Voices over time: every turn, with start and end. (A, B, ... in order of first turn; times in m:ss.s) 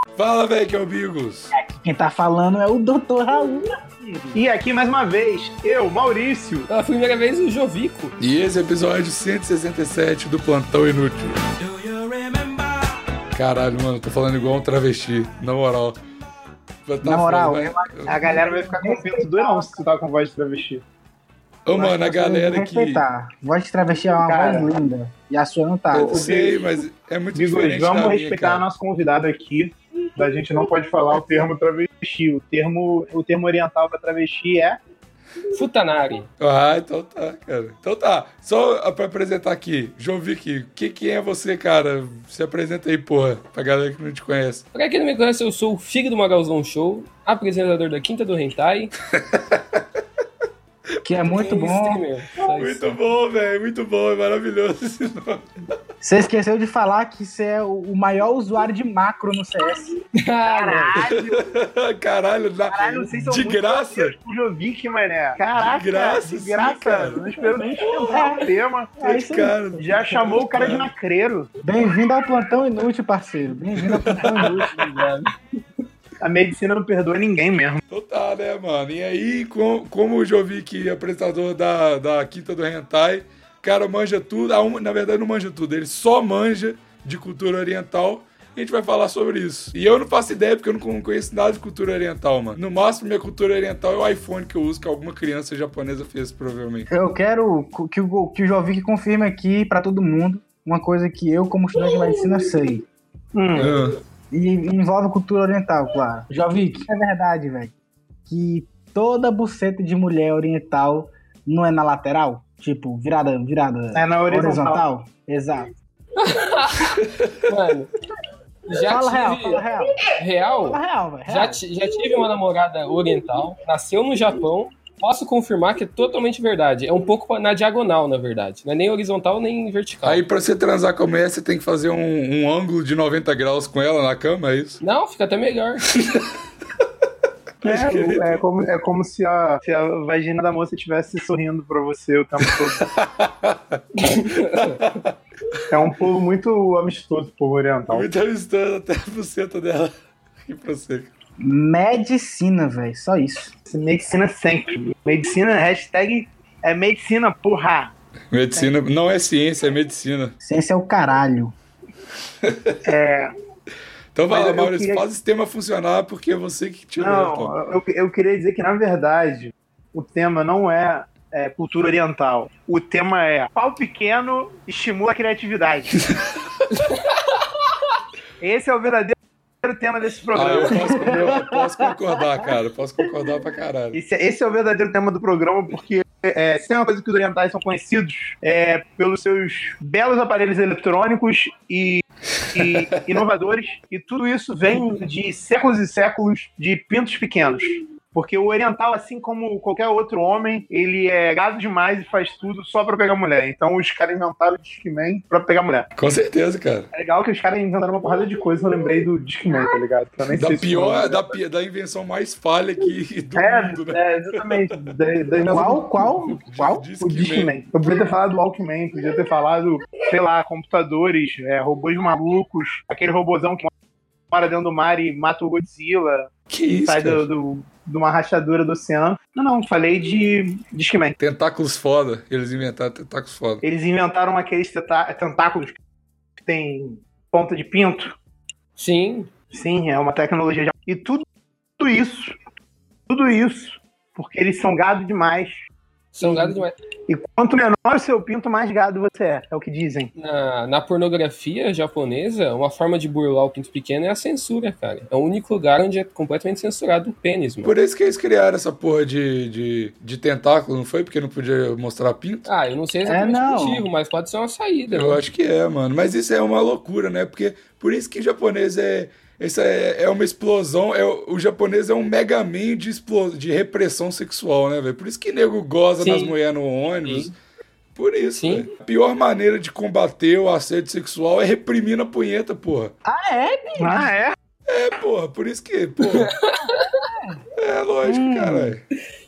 0:00.2-0:01.5 A
0:01.5-0:04.4 B
0:04.3-0:06.7 C
0:06.7-0:08.2 D
0:08.2-0:11.4 A
0:13.3-0:16.0 A
0:16.9-0:18.2 A
0:17.0-0:19.8 B
0:18.1-0:20.8 C
0:21.6-0:23.0 A
0:21.7-0:26.3 B
0:24.2-0:24.7 C
0:25.9-0:28.7 A
0:26.0-0:26.8 C
0:27.4-0:34.8 C
0:35.5-0:36.3 D
0:36.4-0:44.6 A
0:44.7-0:48.9 D
0:49.1-0:49.8 A
0:51.0-0:52.0 B
0:51.3-0:53.0 D
0:52.6-0:55.5 A
0:56.0-1:00.0 B
1:00.1-1:01.1 D
1:00.4-1:01.5 C
1:01.0-1:04.2 A
1:02.7-1:09.0 C
1:05.6-1:07.3 A
1:07.8-1:08.3 A
1:08.1-1:09.8 B
1:09.0-1:10.9 A
1:09.8-1:11.5 C
1:11.6-1:15.1 B
1:13.8-1:14.5 A
1:14.2-1:15.3 D
1:16.2-1:17.8 C
1:17.9-1:36.9 A
1:36.9-1:42.8 B
1:43.3-1:43.8 C
1:43.6-1:43.9 A
1:44.3-1:47.7 B
1:48.3-1:55.7 B
1:53.9-1:54.8 C
1:56.2-1:57.9 D
1:57.0-1:57.4 A
1:58.7-2:10.2 D
1:58.8-1:59.9 B
2:00.6-2:01.6 B
2:10.0-2:14.8 A
2:14.8-2:15.9 D
2:17.6-2:18.4 A
2:17.6-2:22.9 C
2:22.8-2:25.6 A
2:24.0-2:24.8 D
2:25.7-2:28.1 C
2:27.9-2:31.1 A
2:31.4-2:33.5 B
2:33.7-2:37.9 C
2:38.3-2:40.3 A
2:40.4-2:41.5 B
2:42.4-2:42.8 A
2:42.8-2:43.3 C
2:44.2-2:47.5 A
2:44.3-2:45.0 C
2:47.0-2:56.0 C
2:56.1-2:56.6 A
2:56.7-2:57.5 D
2:58.4-3:01.5 C
3:00.3-3:04.0 A
3:00.8-3:01.4 B
3:03.9-3:25.9 C
3:12.4-3:13.0 A
3:26.0-3:26.9 A
3:26.9-3:31.3 C
3:30.3-3:34.4 A
3:33.4-3:36.0 C
3:35.5-3:36.9 B
3:36.4-3:37.5 A
3:37.0-3:43.7 C
3:44.3-3:46.3 C
3:46.5-3:47.2 A
3:46.8-3:51.2 C
3:51.2-3:53.6 A
3:53.6-3:55.8 C
3:56.4-3:58.2 C
3:58.8-3:59.3 D
3:59.5-4:01.3 C
4:01.8-4:02.4 C
4:03.1-4:05.6 C
4:06.1-4:06.8 D
4:06.2-4:10.1 C
4:10.2-4:17.7 D
4:17.6-4:22.5 A
4:22.5-4:25.2 D
4:23.1-4:23.9 B
4:24.9-4:37.3 A
4:36.0-4:36.3 D
4:37.1-4:37.3 D
4:38.0-4:42.9 A
4:38.4-4:38.7 D
4:43.0-4:44.1 B
4:43.8-4:44.4 C
4:44.7-4:46.3 A
4:46.1-4:47.1 D
4:47.6-4:48.8 A
4:48.0-4:48.8 B